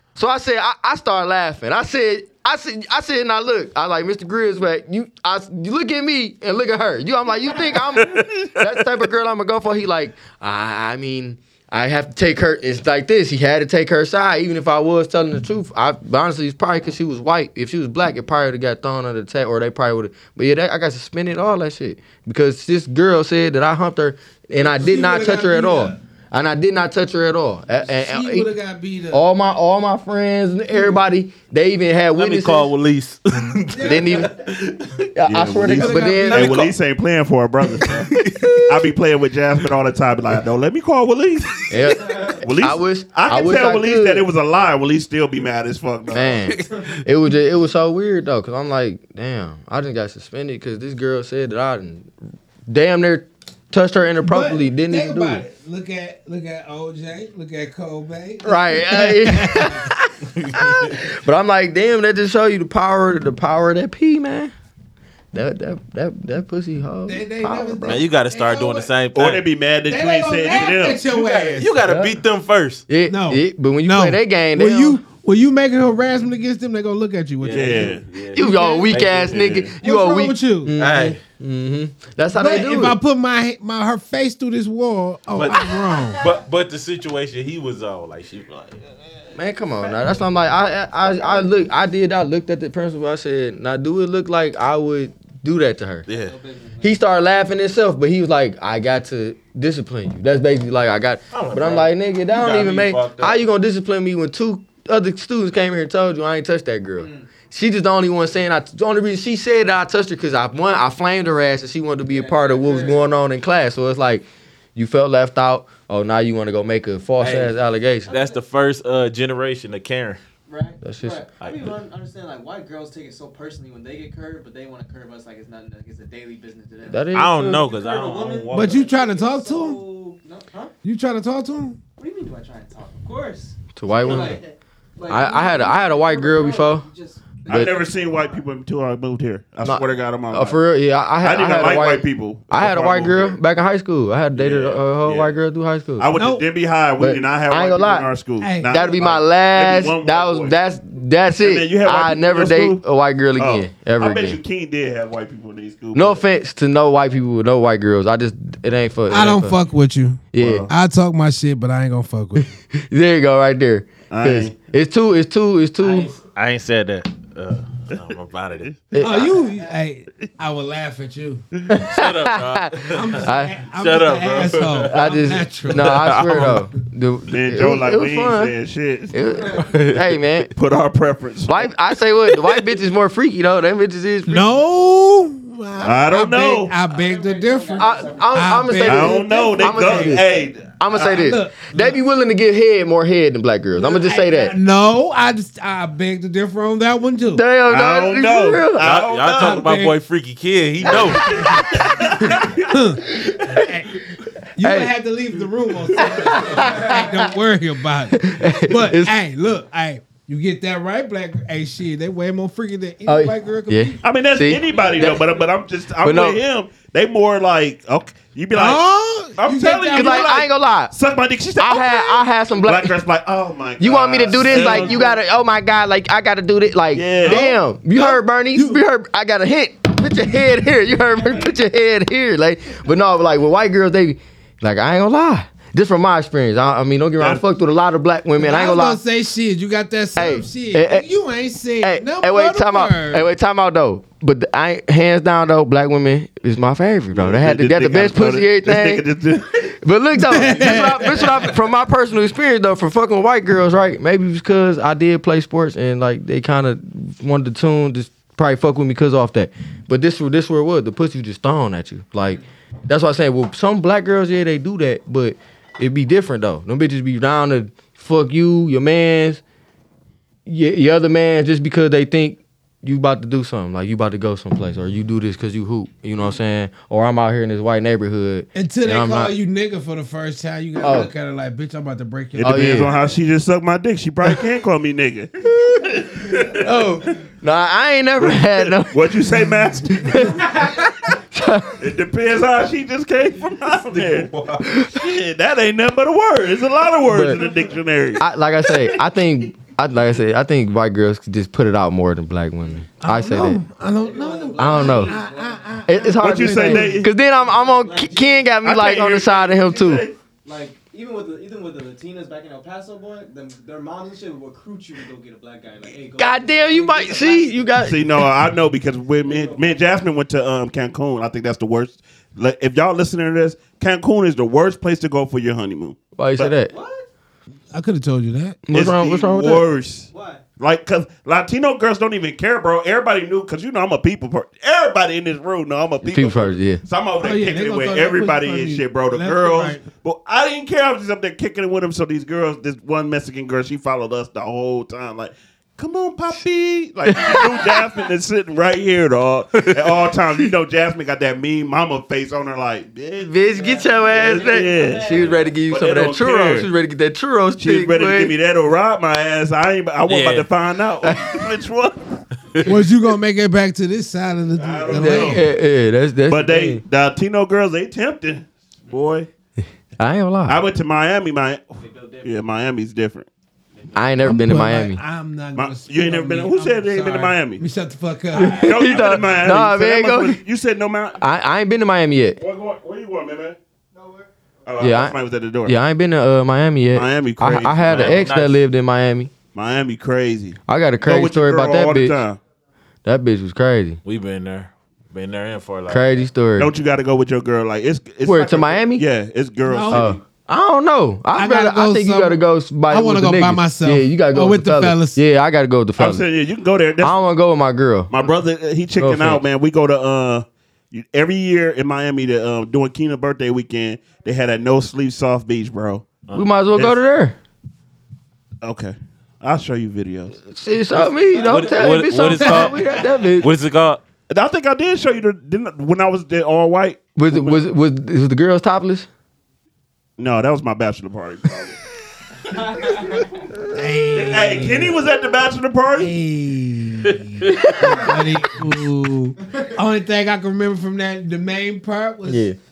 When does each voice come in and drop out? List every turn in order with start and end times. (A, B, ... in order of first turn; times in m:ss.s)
0:00.2-0:28.5 A
0:24.6-0:26.0 B
0:27.8-0:29.2 B
0:29.1-0:32.7 A
0:32.1-0:34.9 C
0:33.7-0:34.3 B
0:33.8-0:34.4 A
0:35.1-0:36.7 A
0:35.3-0:46.5 D
0:35.6-0:36.7 B
0:37.8-0:38.8 C
0:41.7-0:44.3 A
0:42.1-0:42.4 E
0:46.1-0:52.1 A
0:46.5-0:46.9 C
0:52.7-0:55.4 A
0:54.2-0:59.9 B
0:58.4-1:04.5 A
1:00.4-1:01.0 C
1:05.3-1:08.0 A
1:07.1-1:08.9 B
1:07.9-1:09.4 C
1:09.1-1:11.1 D
1:09.9-1:11.7 B
1:11.1-1:12.8 C
1:11.8-1:12.2 A
1:12.9-1:15.0 A
1:13.1-1:18.9 B
1:17.4-1:19.6 C
1:17.5-1:18.0 D
1:18.3-1:23.0 A
1:19.2-1:19.7 D
1:19.8-1:20.8 B
1:20.8-1:21.2 C
1:22.4-1:26.2 B
1:25.3-1:29.2 C
1:29.3-1:36.1 A
1:36.1-1:36.4 C
1:36.1-1:37.0 E
1:36.8-1:58.1 A
1:41.3-1:43.4 C
1:47.0-1:47.3 E
1:52.1-1:53.1 E
1:57.2-1:57.5 C
1:58.1-1:58.4 E
1:58.1-2:00.2 C
2:00.5-2:10.7 E
2:00.8-2:01.2 A
2:01.4-2:01.7 C
2:06.8-2:07.7 A
2:07.1-2:08.9 C
2:08.5-2:09.8 B
2:10.8-2:11.8 B
2:12.0-2:18.4 E
2:13.8-2:14.4 A
2:15.1-2:16.9 A
2:17.5-2:17.8 A
2:17.5-2:20.6 D
2:19.6-2:26.1 A
2:21.2-2:23.4 D
2:24.4-2:25.4 D
2:26.0-2:30.6 D
2:26.1-2:26.4 B
2:27.0-2:28.1 A
2:28.4-2:28.8 B
2:28.7-2:34.4 A
2:31.4-2:32.8 D
2:33.4-2:36.2 D
2:35.9-2:39.6 A
2:39.1-2:42.5 B
2:40.3-2:40.7 A
2:40.4-2:40.7 D
2:42.7-2:46.1 A
2:44.1-2:44.5 D
2:45.8-2:48.7 C
2:48.9-2:49.4 A
2:49.0-2:51.4 B
2:51.7-2:53.6 A
2:51.8-2:55.1 C
2:52.9-2:56.6 B
2:54.9-2:58.5 A
2:55.7-2:56.6 C
2:57.3-2:59.1 D
2:59.1-3:00.5 A
2:59.3-2:59.7 E
2:59.7-3:00.0 C
3:00.5-3:01.7 D
3:01.5-3:04.5 A
3:04.3-3:10.2 B
3:05.8-3:06.8 D
3:06.9-3:08.7 E
3:07.8-3:14.6 A
3:08.8-3:11.2 D
3:10.9-3:12.0 B
3:13.8-3:17.4 B
3:17.3-3:19.0 A
3:17.7-3:19.7 D
3:18.8-3:21.6 C
3:19.3-3:20.0 B
3:20.9-3:23.9 B
3:21.1-3:22.3 A
3:21.6-3:22.8 D
3:23.1-3:23.7 A
3:24.6-3:24.9 A
3:24.6-3:34.0 B
3:26.0-3:27.3 A
3:26.3-3:27.0 E
3:28.1-3:29.2 A
3:33.1-3:35.2 A
3:34.0-3:38.8 D
3:34.7-3:35.4 E
3:36.0-3:36.4 A
3:38.5-3:40.4 B
3:39.4-3:45.2 D
3:39.9-3:40.9 A
3:41.6-3:43.0 A
3:43.8-3:59.0 A
3:46.9-3:47.4 D
3:47.2-3:48.8 B
3:57.2-3:57.4 D
3:58.4-4:03.3 B
4:00.2-4:01.1 A
4:01.8-4:09.0 A
4:07.1-4:09.7 D
4:09.7-4:29.4 A
4:10.1-4:11.5 B
4:30.4-4:39.3 A
4:38.6-4:42.9 B
4:40.8-4:41.1 A
4:42.4-4:46.8 D
4:42.4-4:42.9 A
4:45.6-4:49.2 A
4:48.2-4:50.5 D
4:49.9-4:51.8 A
4:51.8-4:54.3 D
4:53.9-4:54.6 C
4:54.6-4:55.0 A
4:54.9-4:59.0 D
4:57.1-4:57.4 A
4:58.2-5:03.6 A
5:03.0-5:07.0 B
5:04.0-5:05.8 E
5:04.6-5:05.2 A
5:05.9-5:10.1 A
5:06.2-5:07.1 D
5:07.4-5:08.5 E
5:08.6-5:10.2 D
5:10.4-5:17.8 E
5:16.2-5:18.3 A
5:17.8-5:26.5 D
5:19.2-5:19.6 E
5:26.2-5:26.7 A
5:26.7-5:27.1 E
5:27.7-5:28.6 B
5:28.7-5:29.6 A
5:28.7-5:53.3 D
5:30.1-5:30.4 E
5:36.0-5:36.8 A
5:37.2-5:39.8 B
5:47.1-5:47.7 A
5:53.2-5:58.3 A
5:53.5-5:55.6 E
5:54.3-5:56.7 D
5:57.6-6:02.7 D
6:00.1-6:00.5 C
6:01.0-6:01.4 A
6:02.6-6:05.5 B
6:04.5-6:05.5 D
6:04.9-6:06.8 A
6:06.3-6:09.3 D
6:10.0-6:10.6 A
6:10.5-6:13.3 D
6:11.8-6:12.4 E
6:13.7-6:14.2 E
6:14.0-6:15.0 A
6:14.2-6:19.0 B
6:15.6-6:17.6 D
6:18.3-6:20.4 A
6:18.5-6:21.2 D
6:21.2-6:22.4 A
6:22.4-6:23.6 D
6:23.9-6:24.3 E
6:24.7-6:25.8 D
6:24.8-6:29.3 A
6:26.9-6:28.3 D
6:27.9-6:28.6 C
6:29.6-6:32.4 D
6:30.7-6:32.2 A
6:33.0-6:34.0 A
6:34.0-6:36.1 C
6:35.9-6:36.7 A
6:36.6-6:40.2 D
6:38.2-6:39.0 A
6:39.6-6:40.1 B
6:39.9-6:46.2 A
6:41.3-6:45.2 B
6:46.0-6:47.1 D
6:47.0-6:48.1 A
6:48.1-6:56.1 D
6:49.0-6:49.4 A
6:56.3-6:57.4 A
6:58.6-7:00.4 D
7:00.4-7:03.5 A
7:01.2-7:01.9 E
7:01.4-7:04.0 C
7:02.4-7:02.8 B
7:04.3-7:07.6 D
7:07.2-7:09.1 A
7:10.2-7:11.8 D
7:12.5-7:13.4 E
7:13.7-7:15.0 B
7:14.1-7:16.1 D
7:16.0-7:22.5 B
7:17.8-7:18.1 E
7:19.4-7:19.7 E
7:22.3-7:22.6 A